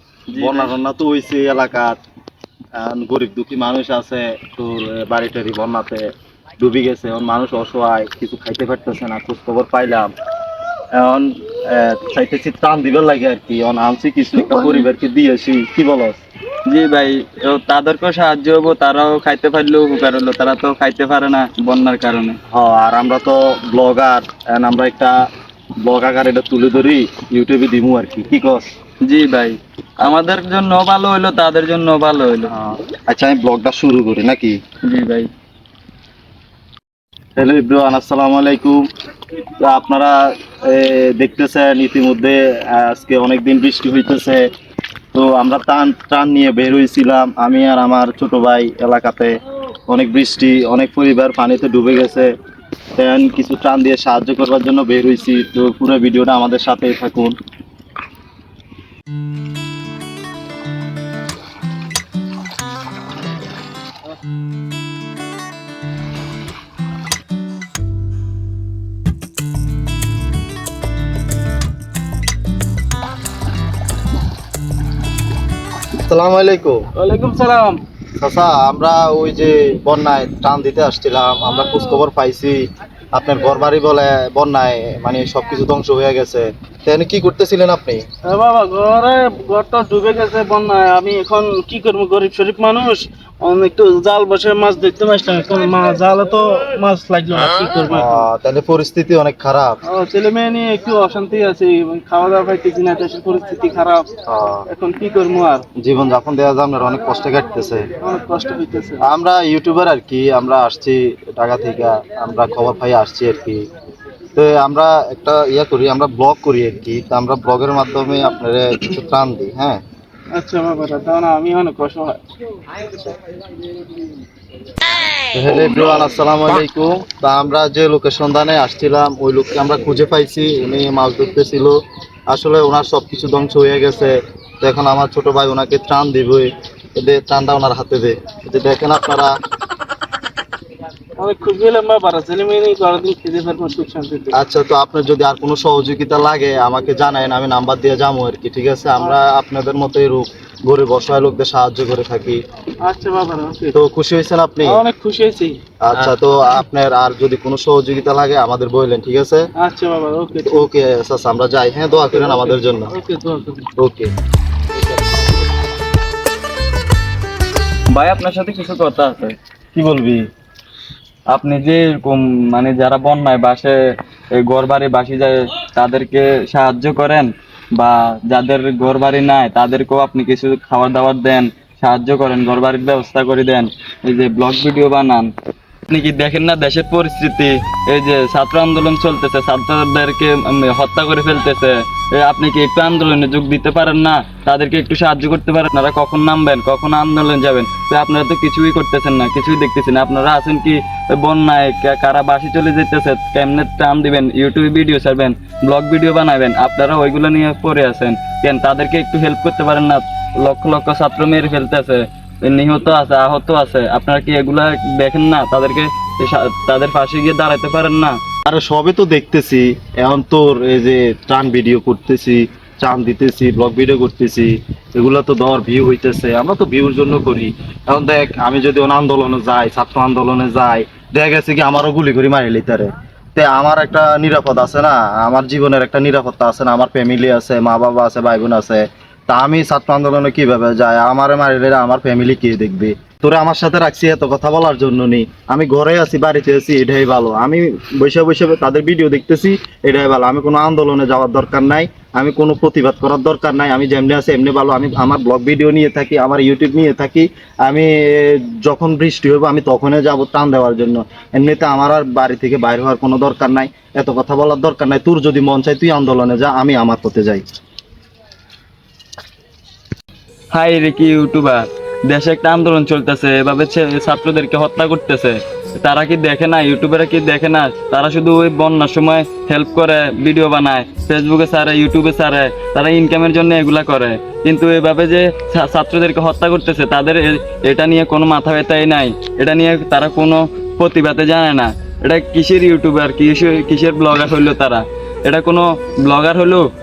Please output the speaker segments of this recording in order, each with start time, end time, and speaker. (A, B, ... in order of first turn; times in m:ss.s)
0:00.3-0:00.7 A
0:00.3-0:02.0 B
0:02.8-0:06.0 B
0:06.6-0:10.1 B
0:10.9-0:16.2 B
0:14.4-0:14.9 A
0:16.6-0:22.4 A
0:22.5-0:25.1 B
0:25.8-0:28.7 B
0:29.0-0:32.5 A
0:32.5-0:34.6 B
0:34.8-0:35.3 A
0:37.4-0:38.8 B
0:39.6-0:44.4 B
0:45.1-0:49.4 B
0:49.9-0:52.3 B
0:53.0-0:57.4 B
1:16.0-1:16.8 B
1:16.9-1:17.8 C
1:18.2-1:22.6 B
1:23.1-1:28.0 B
1:28.2-1:38.3 C
1:37.9-1:39.8 B
1:39.8-1:44.1 C
1:44.3-1:44.7 B
1:44.7-1:45.6 C
1:45.8-1:47.9 B
1:48.0-1:49.1 C
1:49.0-1:53.6 B
1:54.3-1:59.8 B
2:00.3-2:02.2 C
2:05.3-2:11.8 B
2:12.3-2:19.4 B
2:21.2-2:24.3 C
2:24.3-2:32.4 B
2:32.8-2:33.8 C
2:33.7-2:34.8 B
2:34.6-2:35.6 C
2:35.8-2:39.5 B
2:39.6-2:40.7 C
2:40.4-2:42.9 B
2:42.1-2:43.7 C
2:43.8-2:44.1 B
2:47.9-2:49.4 A
2:49.7-2:50.2 B
2:51.3-2:53.8 A
2:54.3-3:05.3 A
3:05.9-3:38.2 A
3:38.4-4:27.4 B
4:30.5-4:56.7 A